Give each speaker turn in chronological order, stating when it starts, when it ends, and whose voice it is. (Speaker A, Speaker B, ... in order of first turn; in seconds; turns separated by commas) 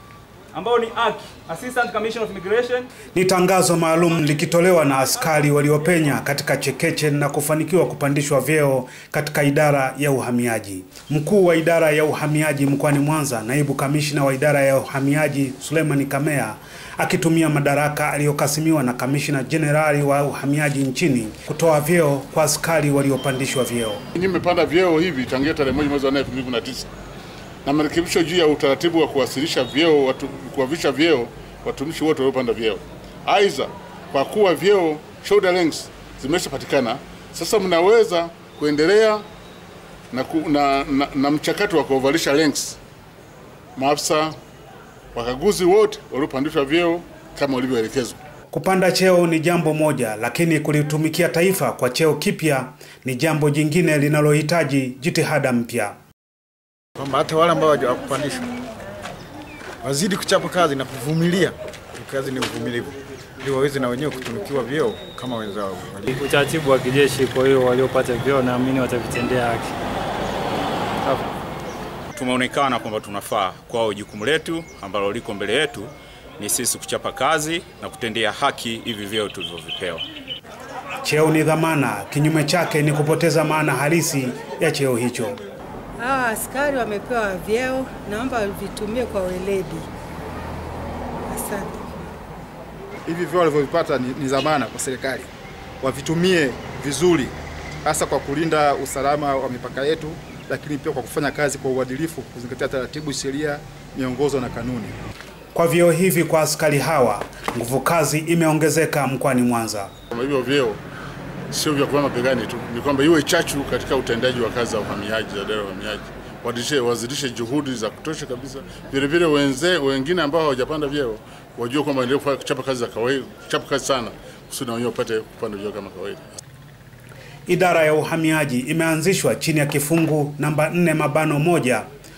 Speaker A: 0.5-2.9, Speaker B: 3.1-24.0, Speaker C: 24.1-26.9, Speaker C: 27.6-39.2, Speaker C: 40.1-42.8, Speaker C: 43.8-44.3, Speaker C: 45.1-48.1, Speaker B: 48.5-55.9, Speaker D: 57.0-58.5, Speaker D: 59.8-66.1, Speaker E: 66.1-69.7, Speaker E: 71.0-71.3, Speaker F: 72.1-80.0, Speaker B: 81.0-85.4, Speaker G: 86.0-89.9, Speaker G: 91.3-91.9, Speaker H: 93.0-95.3, Speaker H: 95.8-105.0, Speaker B: 105.5-109.9, Speaker C: 110.1-110.8, Speaker C: 111.5-126.3, Speaker B: 127.5-131.8